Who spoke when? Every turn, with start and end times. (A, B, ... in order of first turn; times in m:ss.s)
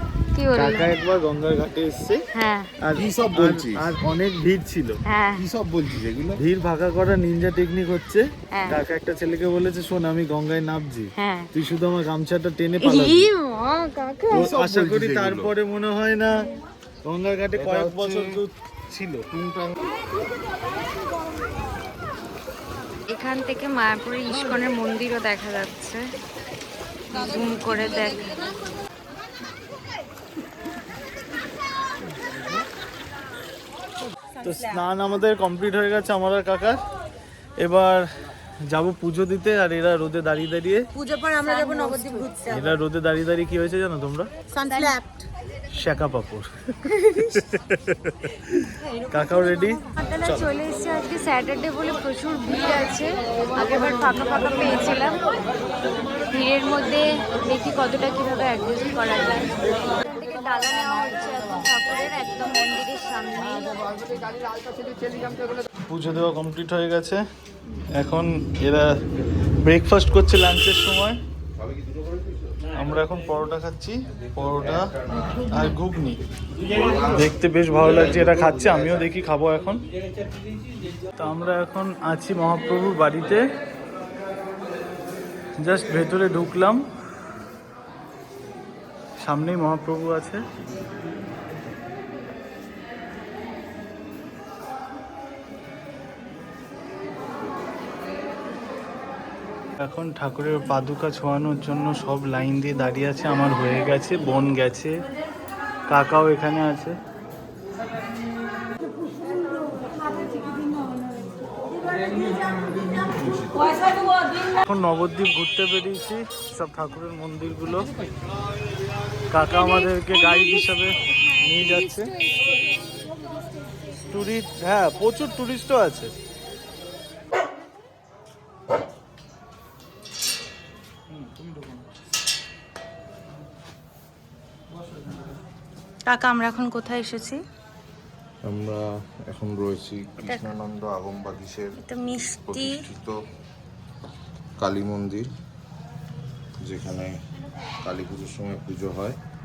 0:00.4-0:00.9 A
0:00.6-0:02.2 B
0:02.4-0:02.7 A
0:02.8-0:05.0 B
0:03.0-0:03.9 C
0:05.1-0:05.4 A
0:05.4-0:06.4 C
0:06.4-0:13.3 B
0:08.5-0:08.8 A
0:11.2-0:11.5 A
0:12.8-0:14.3 A
0:14.3-0:16.4 B
0:14.3-0:15.5 C
0:17.0-0:19.3 B
0:17.6-0:18.4 C
0:19.3-0:19.7 C
0:23.1-0:26.0 A
0:27.1-0:28.4 D
0:27.1-0:28.4 A
0:34.4-0:34.8 D
0:34.4-0:36.8 B
0:37.6-0:38.0 B
0:38.7-0:40.9 B
0:40.9-0:42.8 D
0:41.4-0:42.4 A
0:42.5-0:44.3 B
0:44.5-0:45.2 D
0:44.7-0:45.0 A
0:45.7-0:46.5 B
0:47.2-0:50.5 B
0:49.1-0:49.8 D
0:49.9-0:55.2 A
0:56.3-1:04.2 A
1:05.9-1:07.2 B
1:07.9-1:08.9 B
1:09.6-1:11.2 B
1:11.6-1:12.7 C
1:12.8-1:14.9 B
1:14.2-1:15.6 C
1:15.5-1:16.2 B
1:16.6-1:19.1 C
1:17.0-1:19.8 B
1:21.2-1:23.4 B
1:25.6-1:26.8 B
1:29.2-1:30.4 B
1:39.8-1:44.9 B
1:45.9-1:46.9 B
1:52.0-1:53.7 C
1:54.5-1:57.9 B
1:59.3-2:02.1 B
1:59.5-2:04.0 A
2:04.0-2:06.1 B
2:11.1-2:11.9 B
2:14.9-2:15.2 B
2:16.0-2:17.4 D
2:18.4-2:23.2 C
2:21.8-2:22.8 D
2:24.6-2:25.3 C
2:26.6-2:27.1 C
2:27.8-2:29.2 C